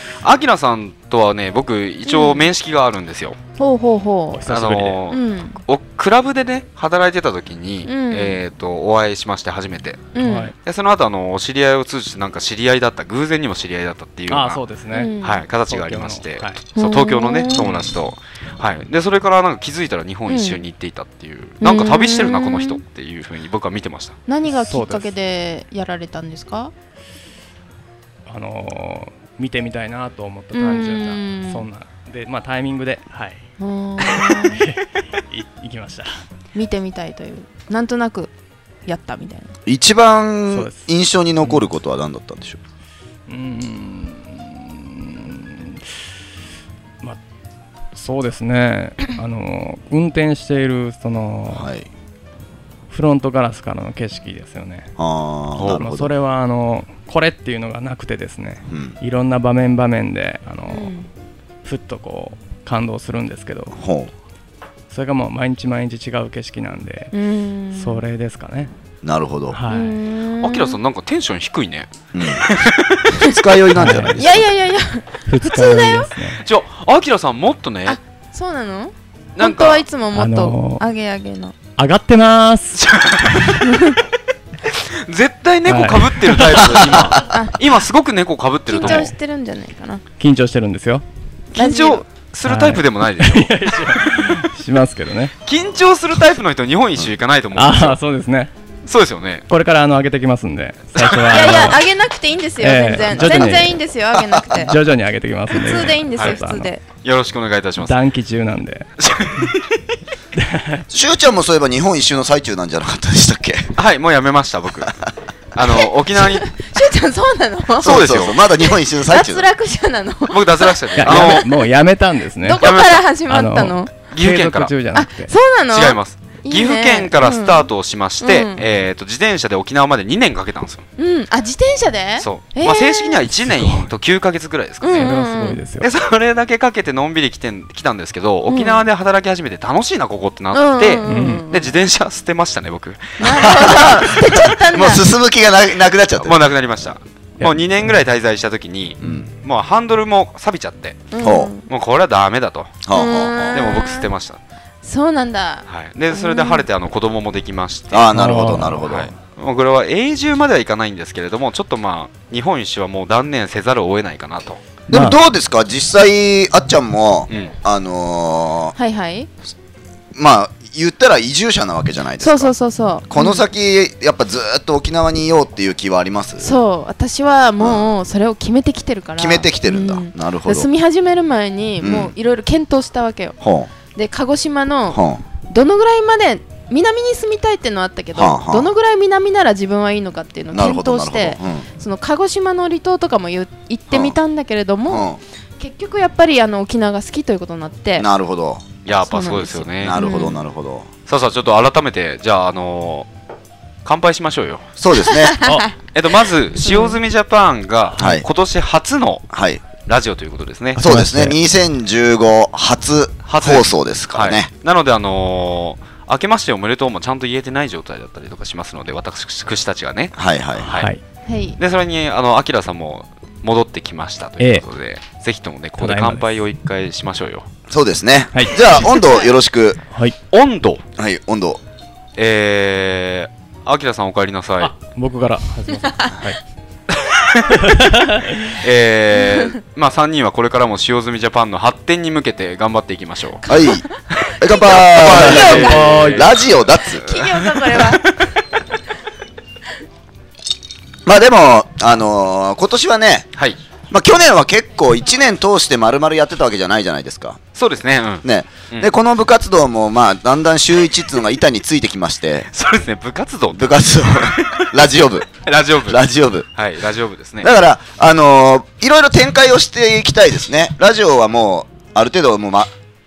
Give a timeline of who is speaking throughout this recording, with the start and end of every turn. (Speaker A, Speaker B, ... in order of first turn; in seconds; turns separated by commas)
Speaker A: 0.2-3.4, Speaker B: 2.1-2.5, Speaker B: 3.6-4.4, Speaker C: 4.3-5.0, Speaker A: 4.5-14.6, Speaker B: 5.1-5.6, Speaker B: 7.9-8.4, Speaker B: 10.2-10.5, Speaker C: 10.2-10.6, Speaker C: 14.3-15.1, Speaker B: 14.9-15.4, Speaker A: 15.2-24.2, Speaker C: 15.7-16.6, Speaker B: 16.8-17.7, Speaker B: 20.3-20.6, Speaker B: 21.6-22.8, Speaker B: 24.3-26.7, Speaker C: 24.4-25.1, Speaker C: 28.3-33.4, Speaker B: 30.5-31.6, Speaker B: 33.6-34.6, Speaker C: 34.1-36.2, Speaker B: 36.5-38.3, Speaker B: 38.9-39.5, Speaker D: 39.7-42.6, Speaker C: 40.5-40.9, Speaker C: 43.3-45.9, Speaker C: 47.9-51.7, Speaker D: 51.5-51.9, Speaker C: 52.9-54.9, Speaker D: 55.0-56.1, Speaker C: 55.7-60.9, Speaker D: 58.7-59.0, Speaker B: 60.7-61.1, Speaker C: 61.6-63.8, Speaker D: 63.8-64.1, Speaker C: 64.9-67.1, Speaker B: 67.1-68.0, Speaker C: 67.7-68.7, Speaker D: 69.0-69.6, Speaker C: 69.5-70.0, Speaker B: 69.7-70.8, Speaker A: 70.4-73.2, Speaker D: 72.1-72.5, Speaker D: 73.1-74.5, Speaker C: 73.7-74.2, Speaker B: 74.1-76.1, Speaker C: 75.3-76.5, Speaker A: 76.4-78.0, Speaker B: 77.9-81.6, Speaker A: 79.4-79.9, Speaker C: 80.1-80.8, Speaker C: 81.8-82.8, Speaker A: 82.8-83.6, Speaker B: 83.6-84.0, Speaker A: 84.7-89.1, Speaker C: 85.7-86.7, Speaker D: 86.7-87.2, Speaker B: 87.2-87.6, Speaker B: 88.7-90.0, Speaker C: 88.8-89.2, Speaker C: 90.2-91.0, Speaker A: 91.5-93.6, Speaker B: 91.6-92.0, Speaker C: 92.5-95.3, Speaker A: 95.5-98.0, Speaker C: 97.5-98.5, Speaker A: 98.9-99.5, Speaker C: 99.5-101.8, Speaker A: 101.0-101.7, Speaker B: 101.3-104.8, Speaker C: 102.6-103.8, Speaker A: 103.2-103.5, Speaker D: 104.1-104.7, Speaker C: 104.6-106.7, Speaker B: 105.5-106.8, Speaker A: 107.0-108.0, Speaker C: 107.8-108.9, Speaker A: 109.0-109.7, Speaker C: 110.4-110.8, Speaker D: 110.9-113.7, Speaker A: 113.8-115.0, Speaker A: 115.5-116.6, Speaker B: 116.2-118.0, Speaker A: 117.8-118.4, Speaker D: 117.8-119.5, Speaker B: 118.6-121.6, Speaker A: 120.3-121.5, Speaker C: 121.0-122.7, Speaker B: 122.4-123.9, Speaker A: 122.6-123.1, Speaker C: 123.3-125.3, Speaker A: 124.1-124.7, Speaker B: 124.9-127.7, Speaker A: 125.7-130.9, Speaker B: 128.2-128.7, Speaker B: 131.0-133.2, Speaker A: 132.2-135.2, Speaker C: 133.4-133.9, Speaker B: 134.8-135.6, Speaker C: 134.9-135.9, Speaker A: 135.8-144.0, Speaker B: 138.5-138.8, Speaker B: 140.5-141.8, Speaker C: 141.1-141.5, Speaker B: 143.2-145.1, Speaker D: 143.3-146.4, Speaker A: 146.2-151.2, Speaker C: 147.4-147.9, Speaker D: 149.0-149.3, Speaker B: 151.1-151.6, Speaker D: 151.2-151.5, Speaker A: 151.7-154.4, Speaker D: 152.9-153.7, Speaker B: 152.9-154.1, Speaker B: 154.8-156.7, Speaker A: 155.7-164.6, Speaker D: 157.9-159.1, Speaker C: 158.1-158.9, Speaker C: 164.9-165.2, Speaker D: 164.9-168.8, Speaker B: 168.8-169.3, Speaker D: 170.2-172.5, Speaker B: 172.2-173.4, Speaker D: 173.1-176.6, Speaker B: 176.4-183.4, Speaker D: 177.6-177.9, Speaker D: 179.2-180.7, Speaker D: 181.8-182.1, Speaker D: 183.4-183.7, Speaker B: 183.9-198.1, Speaker D: 184.9-185.2, Speaker D: 188.2-188.7, Speaker D: 190.5-191.7, Speaker D: 193.9-194.2, Speaker D: 194.9-195.2, Speaker D: 198.0-198.7, Speaker A: 198.8-200.2, Speaker B: 199.1-200.4, Speaker D: 199.8-200.9, Speaker A: 201.1-203.1, Speaker A: 203.8-204.7, Speaker D: 204.8-205.4, Speaker B: 205.0-205.7, Speaker A: 205.9-209.3, Speaker B: 206.6-207.0, Speaker D: 208.0-208.3, Speaker D: 209.3-209.6, Speaker A: 209.8-210.8, Speaker D: 210.8-214.5, Speaker C: 210.8-211.4, Speaker A: 213.3-220.9, Speaker D: 220.2-220.7, Speaker C: 220.7-221.0, Speaker B: 221.3-221.6, Speaker A: 221.6-227.5, Speaker C: 224.4-224.6, Speaker C: 225.8-226.3, Speaker D: 227.7-229.8, Speaker C: 228.3-228.6, Speaker B: 228.9-229.3, Speaker C: 229.9-230.2, Speaker A: 230.3-230.8, Speaker D: 231.0-231.6, Speaker A: 232.2-234.8, Speaker C: 234.6-236.4, Speaker A: 236.9-237.6, Speaker C: 237.5-238.6, Speaker A: 238.5-243.4, Speaker B: 239.2-239.5, Speaker B: 243.4-243.9, Speaker D: 243.5-243.9, Speaker A: 244.1-248.0, Speaker D: 244.4-247.1, Speaker B: 244.4-245.9, Speaker C: 245.1-246.3, Speaker B: 246.9-248.2, Speaker D: 251.1-253.3, Speaker D: 253.9-257.4, Speaker A: 257.6-258.9, Speaker D: 258.2-262.5, Speaker A: 262.5-267.5, Speaker D: 263.5-265.3, Speaker D: 265.9-266.5, Speaker D: 267.4-272.7